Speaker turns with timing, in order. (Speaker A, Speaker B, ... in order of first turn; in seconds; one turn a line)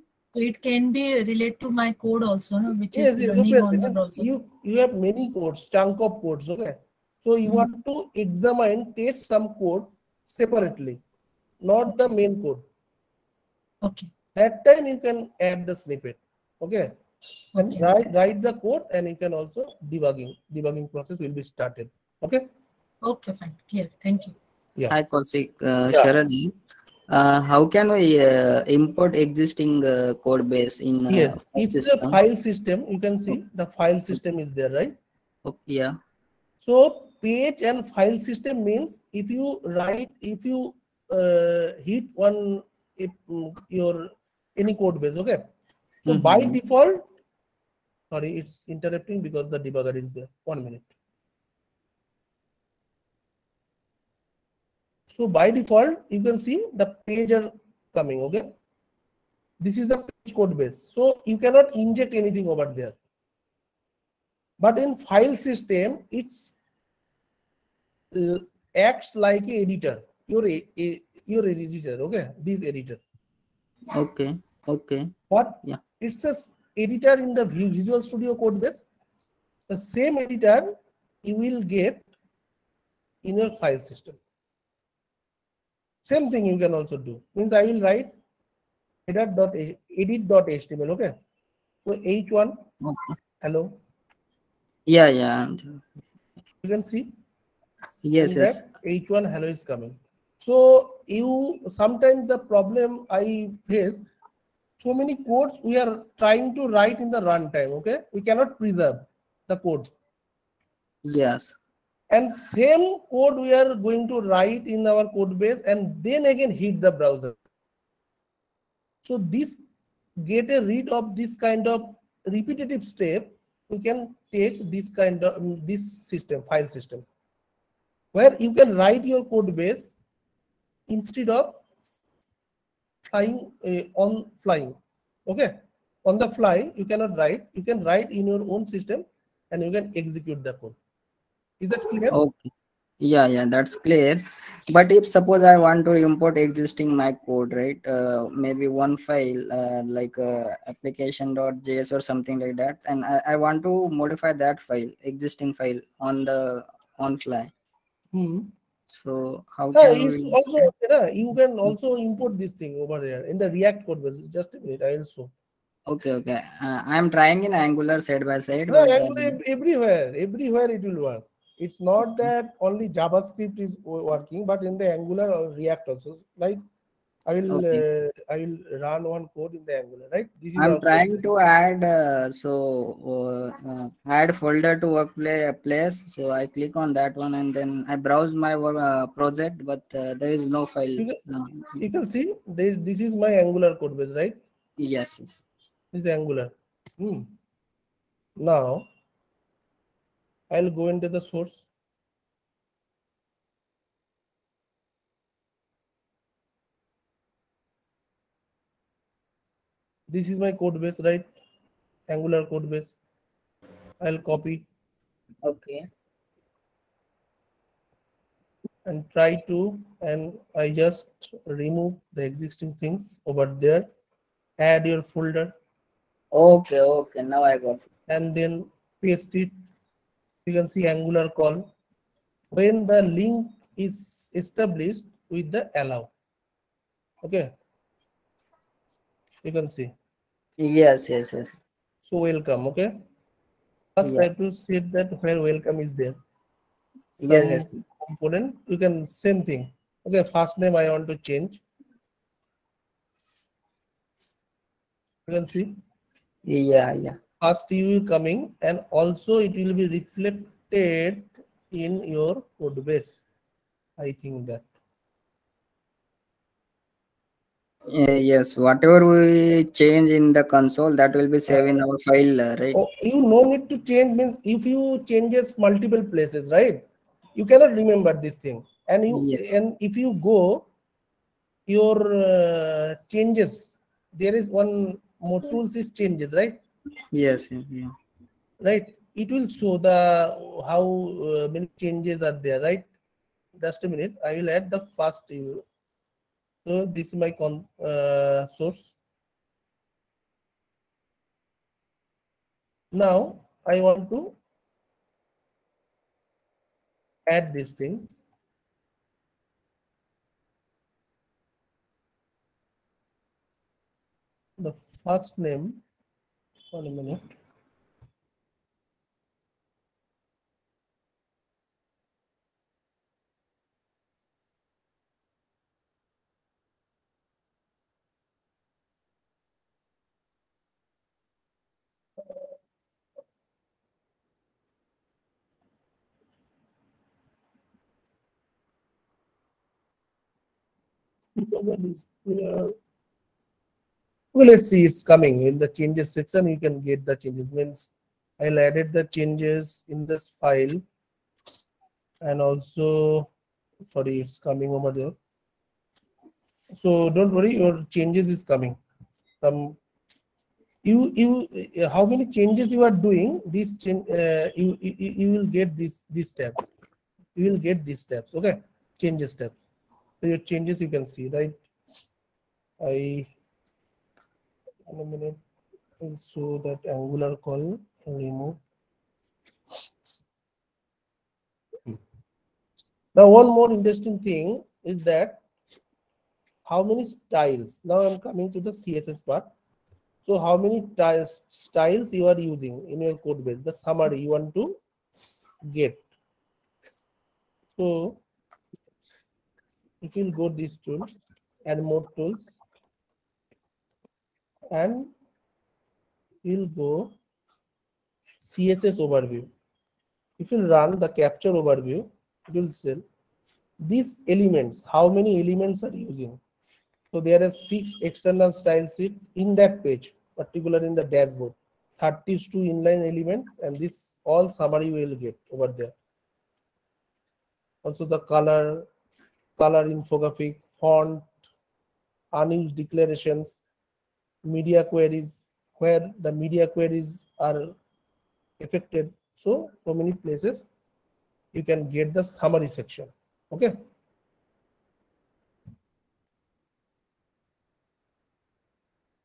Speaker A: 0.3-4.3
Speaker B: 2.9-11.0
Speaker B: 11.6-12.6
Speaker A: 13.8-14.1
Speaker B: 14.3-16.9
Speaker A: 17.6-17.9
Speaker B: 17.6-22.4
Speaker A: 23.0-24.4
Speaker C: 24.9-26.5
Speaker C: 27.1-32.2
Speaker B: 31.1-34.9
Speaker C: 35.5-36.0
Speaker B: 36.6-45.5
Speaker C: 46.1-46.6
Speaker B: 46.1-47.1
Speaker B: 48.1-50.9
Speaker B: 55.1-58.5
Speaker B: 59.6-63.0
Speaker B: 64.6-66.5
Speaker B: 68.1-73.0
Speaker C: 73.9-75.1
Speaker B: 75.3-78.8
Speaker B: 79.7-82.1
Speaker B: 83.2-84.2
Speaker B: 86.0-88.1
Speaker B: 89.1-91.1
Speaker B: 91.8-92.6
Speaker C: 92.8-93.2
Speaker B: 93.4-93.8
Speaker C: 94.9-95.9
Speaker B: 96.6-97.1
Speaker C: 98.0-98.6
Speaker B: 98.1-104.0
Speaker B: 104.8-109.9
Speaker C: 111.0-111.5
Speaker B: 112.1-117.3
Speaker B: 119.0-119.6
Speaker B: 120.2-127.0
Speaker B: 128.1-129.9
Speaker B: 130.9-131.6
Speaker B: 133.0-140.8
Speaker B: 141.6-142.2
Speaker C: 142.1-157.5
Speaker B: 158.1-158.5
Speaker C: 158.9-160.7
Speaker B: 159.7-165.3
Speaker C: 165.9-169.4
Speaker B: 168.7-176.6
Speaker B: 177.3-181.2
Speaker C: 177.5-177.8
Speaker C: 180.6-191.6
Speaker B: 191.0-194.4
Speaker C: 194.8-195.4
Speaker B: 195.9-197.3
Speaker B: 198.4-198.9
Speaker B: 200.5-201.6
Speaker B: 210.1-211.3
Speaker B: 212.1-212.9
Speaker B: 214.0-214.6
Speaker C: 215.4-215.9
Speaker B: 218.8-223.9
Speaker B: 224.6-225.5
Speaker C: 226.3-227.8
Speaker B: 228.1-229.5
Speaker B: 230.4-231.7
Speaker B: 232.5-236.1
Speaker B: 237.2-237.5
Speaker B: 239.4-239.9
Speaker C: 240.6-241.5
Speaker B: 242.0-242.9
Speaker B: 243.9-246.2
Speaker C: 244.0-244.3
Speaker B: 247.2-251.6
Speaker C: 247.2-247.8
Speaker B: 255.3-255.7
Speaker C: 256.5-257.2
Speaker B: 257.4-263.2
Speaker B: 264.0-264.6
Speaker C: 267.9-272.8
Speaker B: 271.5-271.9
Speaker B: 272.7-276.8
Speaker B: 277.4-280.7
Speaker C: 279.1-279.4
Speaker B: 281.7-286.6
Speaker C: 287.1-287.9
Speaker B: 288.6-292.9
Speaker B: 293.6-295.6
Speaker B: 296.6-298.9
Speaker B: 302.9-304.4
Speaker B: 307.3-308.1
Speaker B: 314.6-315.8
Speaker B: 316.7-317.3
Speaker B: 341.4-342.7
Speaker B: 344.3-350.8
Speaker B: 352.2-353.3
Speaker B: 353.9-355.1
Speaker B: 356.7-358.8
Speaker B: 359.4-359.8
Speaker B: 360.8-366.6
Speaker B: 367.4-369.6
Speaker B: 370.2-371.6
Speaker B: 372.8-373.3
Speaker B: 374.9-375.4
Speaker B: 376.0-378.6
Speaker B: 383.1-385.4
Speaker B: 386.6-389.5
Speaker B: 390.2-394.8
Speaker B: 395.6-396.0
Speaker B: 397.8-398.2
Speaker B: 400.0-401.1
Speaker B: 401.6-402.6
Speaker B: 404.7-405.1
Speaker B: 406.4-407.1
Speaker B: 408.4-409.5
Speaker B: 410.4-413.0
Speaker B: 413.8-416.4
Speaker B: 417.1-425.9
Speaker B: 427.8-428.9
Speaker B: 429.6-431.3
Speaker B: 432.3-433.6
Speaker B: 434.4-437.7
Speaker B: 438.6-440.7
Speaker B: 441.5-443.8